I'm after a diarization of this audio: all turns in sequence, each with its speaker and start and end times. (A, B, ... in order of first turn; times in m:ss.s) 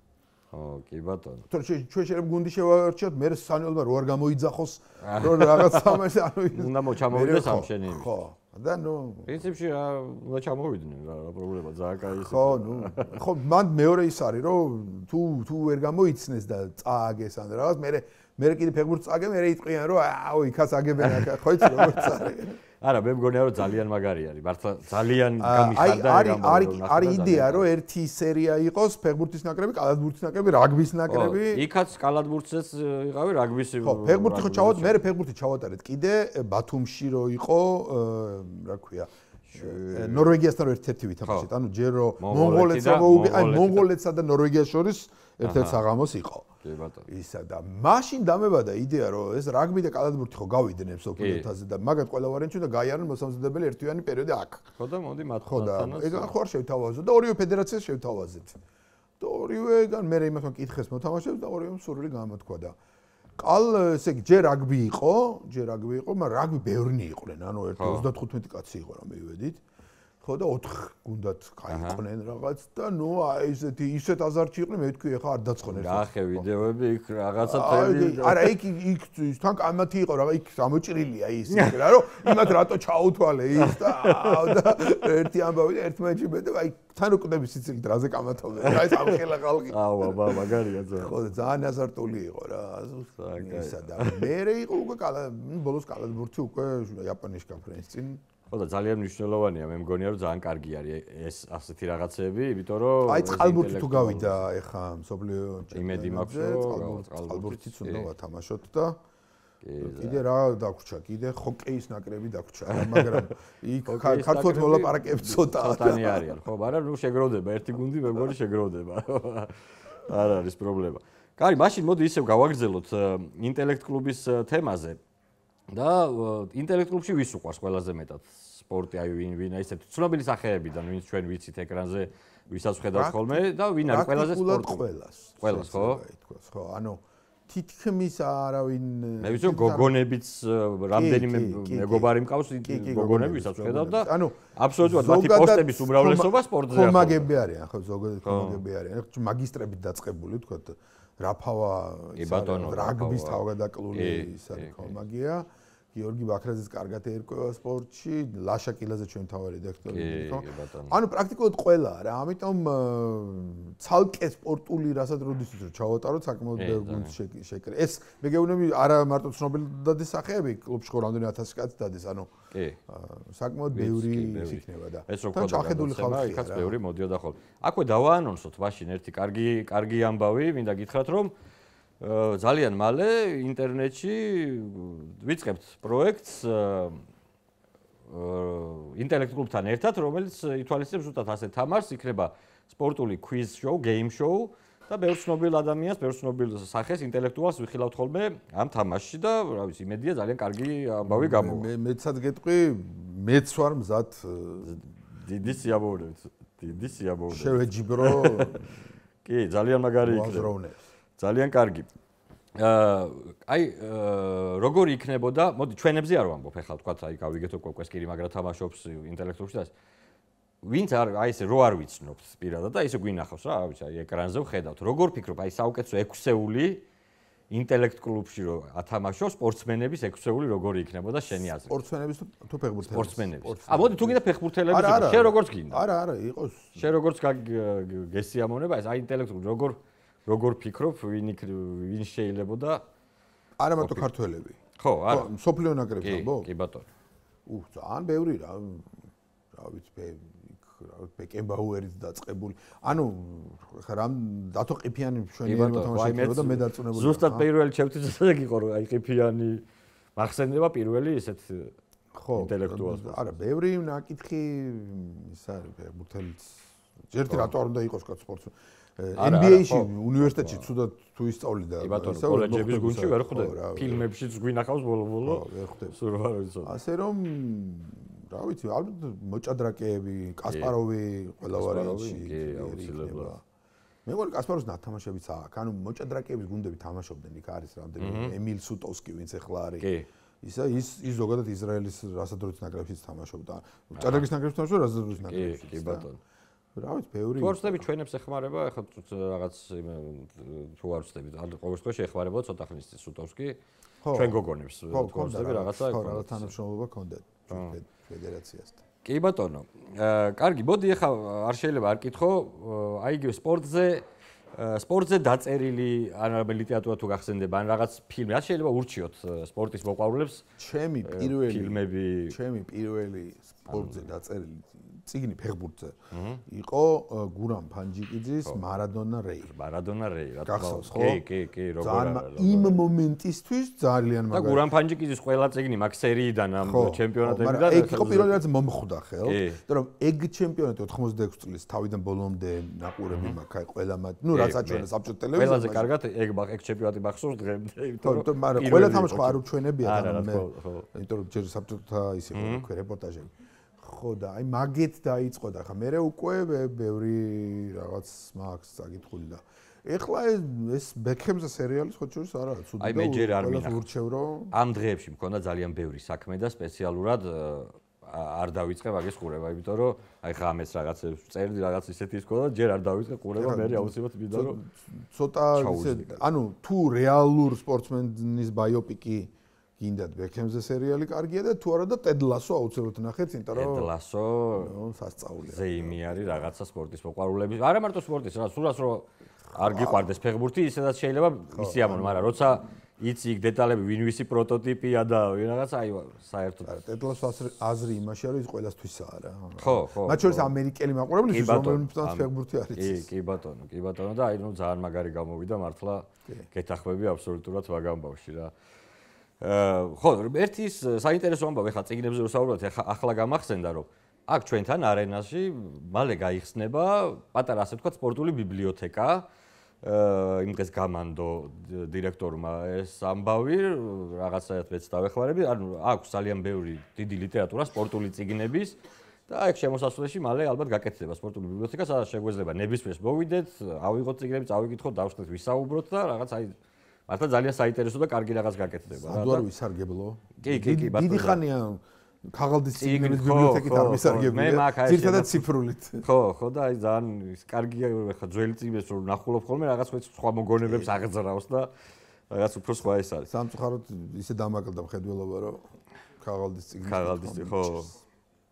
0:00.5-0:01.5 A
0:01.5-0:09.4 B
0:05.0-0:08.1 A
0:09.2-0:13.2 A
0:12.2-0:22.6 B
0:21.0-0:22.2 A
0:22.8-0:27.7 A
0:25.4-0:31.6 B
0:31.1-0:35.0 A
0:33.8-0:46.5 B
0:39.5-0:40.3 A
0:41.2-0:41.5 A
0:42.2-0:43.9 A
0:45.4-0:45.8 A
0:46.6-0:47.1 A
0:47.1-0:54.6 B
0:51.2-0:51.5 A
0:54.8-0:56.3 A
0:55.4-0:58.6 B
0:59.2-1:02.8 B
1:03.4-1:09.6 B
1:07.8-1:08.1 A
1:10.2-1:16.5 B
1:11.7-1:12.0 A
1:15.7-1:18.5 A
1:17.4-1:38.2 B
1:21.5-1:22.4 A
1:23.6-1:24.6 A
1:28.6-1:31.1 A
1:33.2-1:34.3 A
1:38.5-1:44.4 A
1:43.0-1:49.0 B
1:45.7-1:48.1 A
1:49.6-1:50.2 A
1:49.8-1:56.4 B
1:52.7-1:53.3 A
1:53.8-2:05.0 A
2:05.7-2:14.8 A
2:12.9-2:19.9 B
2:15.4-2:16.0 A
2:19.2-2:27.3 A
2:20.9-2:22.1 B
2:22.6-2:52.3 B
2:28.2-2:28.6 A
2:32.2-2:34.9 A
2:39.9-2:41.0 A
2:46.6-2:47.2 A
2:52.5-2:52.8 A
2:52.9-2:56.8 B
2:53.7-3:01.3 A
3:02.0-3:07.0 A
3:08.1-3:21.7 A
3:21.1-3:24.7 B
3:24.6-3:28.6 A
3:27.3-3:28.7 B
3:29.2-3:30.5 A
3:30.0-3:30.9 B
3:31.2-3:31.9 A
3:32.6-3:39.7 A
3:40.6-3:46.8 A
3:47.5-3:51.7 A
3:51.6-3:56.9 B
3:52.8-3:55.8 A
3:56.7-4:02.8 A
4:03.6-4:04.6 B
4:03.8-4:04.0 A
4:04.8-4:05.3 A
4:05.1-4:06.5 B
4:06.0-4:06.9 A
4:07.4-4:09.0 B
4:09.5-4:17.5 B
4:15.4-4:19.6 A
4:20.2-4:21.7 A
4:22.1-4:34.0 B
4:22.3-4:23.4 A
4:29.1-4:30.7 A
4:31.8-4:36.7 A
4:35.2-4:36.0 B
4:36.6-4:43.4 B
4:40.5-4:40.7 A
4:41.5-4:43.3 A
4:44.0-4:49.9 B
4:48.0-4:48.3 A
4:49.8-4:50.1 A
4:50.4-4:56.0 B
4:55.3-4:56.2 A
4:56.7-4:57.8 B
4:57.4-5:03.6 A
5:04.0-5:08.8 B
5:04.1-5:06.5 A
5:09.0-5:20.4 A
5:20.6-5:29.5 B
5:21.0-5:22.4 A
5:23.7-5:24.1 A
5:26.1-5:26.4 A
5:29.5-5:32.8 A
5:30.4-5:31.2 B
5:31.8-5:34.6 B
5:34.3-5:38.4 A
5:36.6-5:45.9 B
5:39.2-5:39.6 A
5:43.1-5:43.4 A
5:44.3-5:50.9 A
5:48.0-6:04.5 B
5:52.3-5:52.7 A
6:02.8-6:03.8 A
6:04.5-6:14.6 A
6:13.4-6:23.9 B
6:15.5-6:16.2 A
6:23.5-6:24.7 A
6:24.5-6:26.5 B
6:25.4-6:36.7 A
6:29.5-6:30.1 B
6:31.5-6:32.6 B
6:36.6-6:43.1 B
6:39.6-6:40.5 A
6:41.3-6:48.5 A
6:49.4-6:59.2 A
6:59.8-7:08.8 A
7:09.3-7:16.6 A
7:17.1-7:19.5 A
7:18.9-7:26.0 B
7:20.4-7:21.4 A
7:22.8-7:25.5 A
7:26.0-7:31.7 A
7:30.6-7:31.0 B
7:32.3-7:33.3 A
7:33.3-7:35.6 B
7:36.2-7:38.0 B
7:36.8-7:37.9 A